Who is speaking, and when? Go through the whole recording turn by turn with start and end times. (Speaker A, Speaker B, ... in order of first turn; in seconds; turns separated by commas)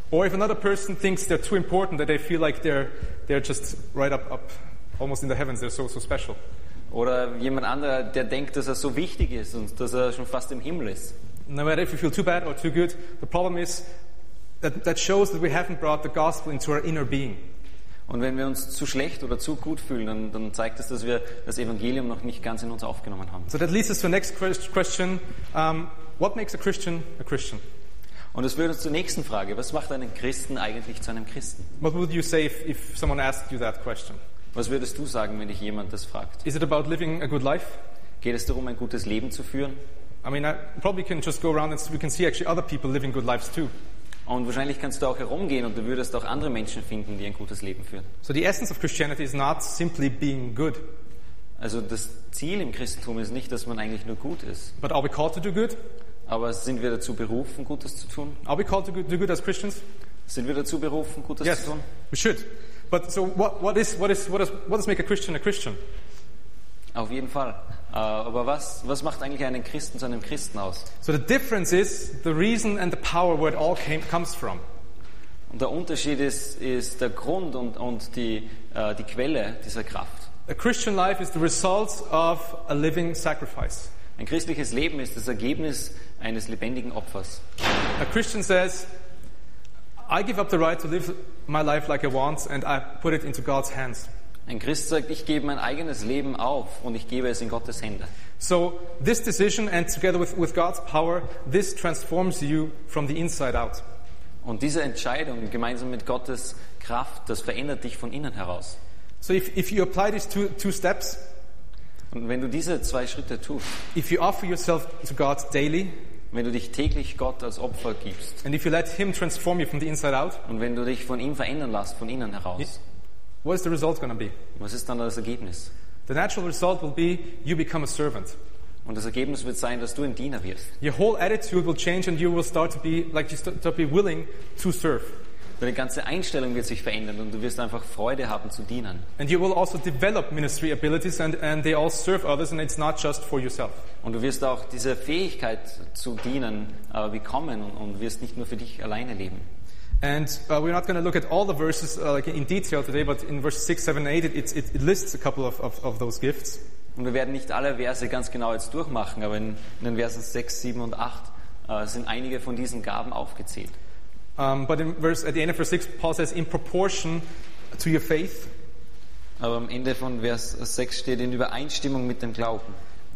Speaker A: 0.1-6.4, Speaker B: 6.9-11.1, Speaker A: 11.5-13.9, Speaker A: 14.6-17.4, Speaker B: 18.1-23.5, Speaker A: 23.5-27.6, Speaker B: 28.3-31.7, Speaker A: 31.8-34.2, Speaker B: 34.5-36.4, Speaker A: 36.4-37.8, Speaker B: 38.2-39.8, Speaker A: 40.2-43.7, Speaker B: 44.3-48.1, Speaker A: 48.2-50.8, Speaker B: 51.6-54.7, Speaker A: 54.8-55.8, Speaker B: 56.3-58.4, Speaker A: 58.4-59.8, Speaker B: 60.3-61.8, Speaker A: 61.4-65.8, Speaker B: 66.9-70.9, Speaker A: 71.0-74.6, Speaker B: 75.5-80.3, Speaker A: 80.5-83.9, Speaker B: 84.2-87.4, Speaker A: 88.0-88.9, Speaker A: 90.0-94.1, Speaker B: 94.5-98.1, Speaker A: 98.4-103.8, Speaker B: 104.4-108.8, Speaker A: 109.2-111.2, Speaker B: 112.1-113.8, Speaker A: 113.9-115.9, Speaker B: 116.3-118.4, Speaker A: 118.4-120.4, Speaker B: 120.4-122.8, Speaker A: 123.4-124.3, Speaker B: 124.5-125.7, Speaker A: 126.1-128.3, Speaker B: 128.8-130.7, Speaker A: 130.8-135.2, Speaker B: 135.6-139.1, Speaker A: 139.2-143.8, Speaker B: 144.0-149.5, Speaker A: 150.0-156.6, Speaker B: 156.9-163.7, Speaker A: 164.4-167.2, Speaker A: 167.7-168.5, Speaker B: 169.4-172.8